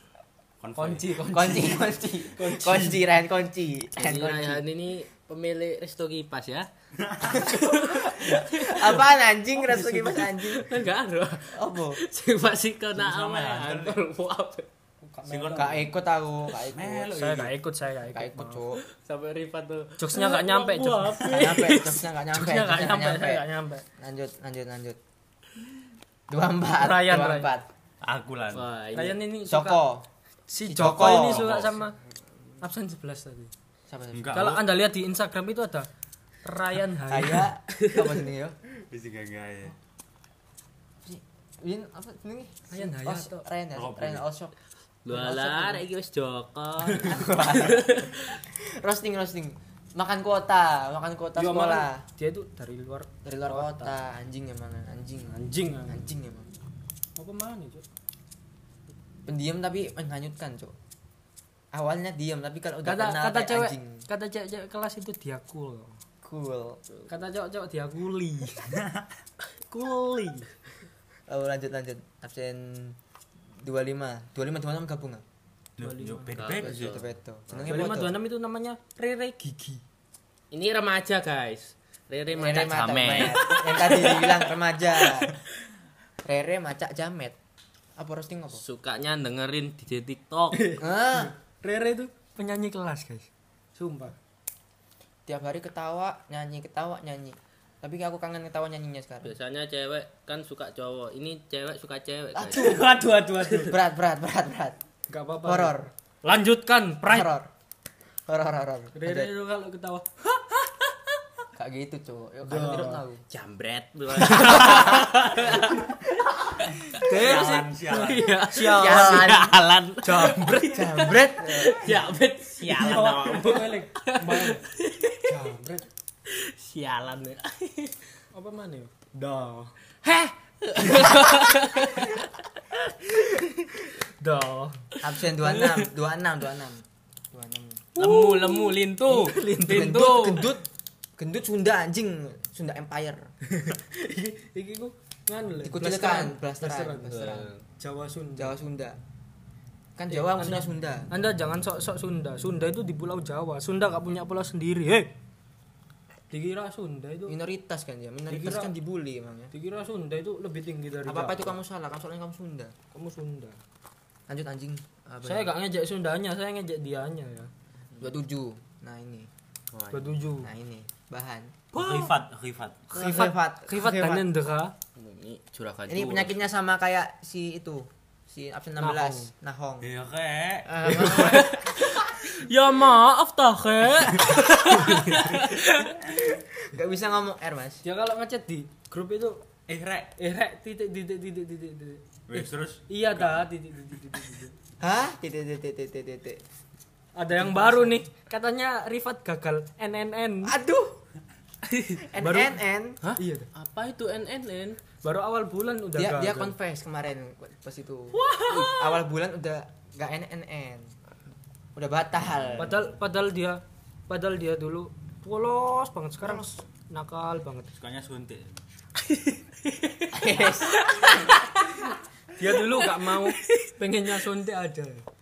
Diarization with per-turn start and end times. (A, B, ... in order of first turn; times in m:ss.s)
0:00.6-0:01.4 A
0:00.8-0:03.0 B
0:01.2-0:04.6 C
0:04.0-0:06.7 D
0:07.0-0:07.4 A
0:07.2-0:09.0 D
0:07.3-0:10.8 C
0:09.6-0:10.0 B
0:10.3-0:14.7 D
0:11.5-0:12.0 C
0:12.9-0:14.0 A
0:15.0-0:15.9 B
0:15.3-0:15.9 A
0:15.5-0:17.2 C
0:16.6-0:17.5 A
0:17.0-0:18.6 B
0:18.1-0:18.8 C
0:18.8-0:22.0 D
0:20.0-0:21.8 B
0:21.3-0:25.0 C
0:22.3-0:23.8 B
0:26.3-0:27.7 C
0:26.8-0:27.5 B
0:28.0-0:28.6 A
0:28.5-0:29.2 D
0:28.9-0:29.8 B
0:29.4-0:30.0 C
0:30.5-0:31.9 B
0:30.6-0:31.5 C
0:30.8-0:31.7 A
0:32.6-0:33.5 B
0:33.9-0:34.6 C
0:34.1-0:34.7 A
0:34.3-0:35.9 B
0:36.4-0:37.5 B
0:37.1-0:38.6 C
0:38.9-0:39.8 A
0:41.0-0:44.5 C
0:42.7-0:43.4 B
0:43.7-0:44.3 A
0:45.0-0:48.4 D
0:45.1-0:45.8 C
0:46.9-0:52.0 C
0:51.4-0:53.9 B
0:53.2-0:56.5 C
0:55.3-0:56.0 B
0:57.2-0:57.8 B
0:59.2-1:00.7 C
1:01.7-1:04.0 C
1:02.8-1:06.0 B
1:06.2-1:06.8 C
1:07.1-1:08.8 B
1:08.7-1:09.0 A
1:09.7-1:10.5 B
1:11.3-1:13.0 C
1:13.6-1:15.2 C
1:15.8-1:17.0 A
1:15.8-1:16.5 B
1:16.3-1:17.6 D
1:16.6-1:18.2 C
1:17.6-1:19.8 B
1:20.5-1:24.4 D
1:22.3-1:25.4 C
1:23.4-1:23.9 B
1:26.2-1:27.4 C
1:28.0-1:28.6 C
1:28.5-1:30.7 D
1:30.5-1:34.2 B
1:30.8-1:31.3 C
1:35.2-1:39.3 C
1:39.2-1:42.8 D
1:42.3-1:44.8 C
1:42.5-1:43.7 B
1:45.1-1:47.3 B
1:45.4-1:45.9 C
1:47.0-1:47.5 C
1:48.3-1:49.3 C
1:48.9-1:50.1 B
1:51.5-1:53.2 C
1:52.4-1:53.0 B
1:53.3-1:55.8 D
1:54.3-1:55.0 C
1:54.6-1:54.8 B
1:56.7-1:58.3 A
1:57.0-1:59.2 B
1:57.4-2:00.6 D
1:58.5-2:02.0 C
2:00.0-2:01.9 B
2:01.5-2:05.3 D
2:02.6-2:03.8 A
2:02.6-2:04.7 B
2:05.2-2:05.9 B
2:06.3-2:08.0 D
2:08.3-2:09.7 B
2:10.0-2:12.3 D
2:14.0-2:15.0 B
2:15.0-2:17.9 C
2:17.9-2:20.0 B
2:18.0-2:20.5 D
2:19.6-2:20.6 C
2:21.2-2:23.3 C
2:23.5-2:28.5 B
2:25.6-2:27.5 C
2:27.1-2:27.6 D
2:28.4-2:29.0 C
2:30.0-2:31.1 C
2:30.1-2:35.1 B
2:36.3-2:37.4 B
2:37.3-2:39.5 C
2:38.3-2:38.7 B
2:39.5-2:41.6 B
2:41.0-2:42.7 C
2:42.9-2:43.6 B
2:44.3-2:45.5 C
2:45.2-2:47.5 B
2:48.0-2:49.3 C
2:49.7-2:50.2 D
2:49.9-2:50.5 B
2:50.4-2:51.6 C
2:51.7-2:52.9 A
2:51.8-2:52.1 B
2:52.9-2:54.3 C
2:52.9-2:54.7 B
2:55.0-2:56.3 D
2:55.9-2:59.9 C
2:58.8-2:59.3 B
2:59.8-3:01.4 A
3:00.7-3:01.6 C
3:01.0-3:05.9 D
3:01.0-3:01.5 B
3:04.0-3:05.2 B
3:06.6-3:07.8 C
3:07.8-3:09.4 B
3:09.7-3:10.1 A
3:10.2-3:12.0 B
3:12.3-3:13.4 A
3:12.9-3:14.5 B
3:14.8-3:16.4 C
3:17.2-3:20.5 B
3:17.4-3:17.9 C
3:20.4-3:21.0 C
3:21.7-3:22.0 D
3:22.0-3:23.0 C
3:22.2-3:23.5 B
3:23.0-3:24.8 D
3:25.0-3:26.5 B
3:25.9-3:30.9 C
3:28.2-3:28.8 B
3:31.8-3:32.9 C
3:32.6-3:37.7 B
3:36.2-3:36.6 C
3:37.8-3:38.6 A
3:39.0-3:41.9 D
3:40.1-3:41.3 C
3:42.3-3:45.0 B
3:43.2-3:43.6 D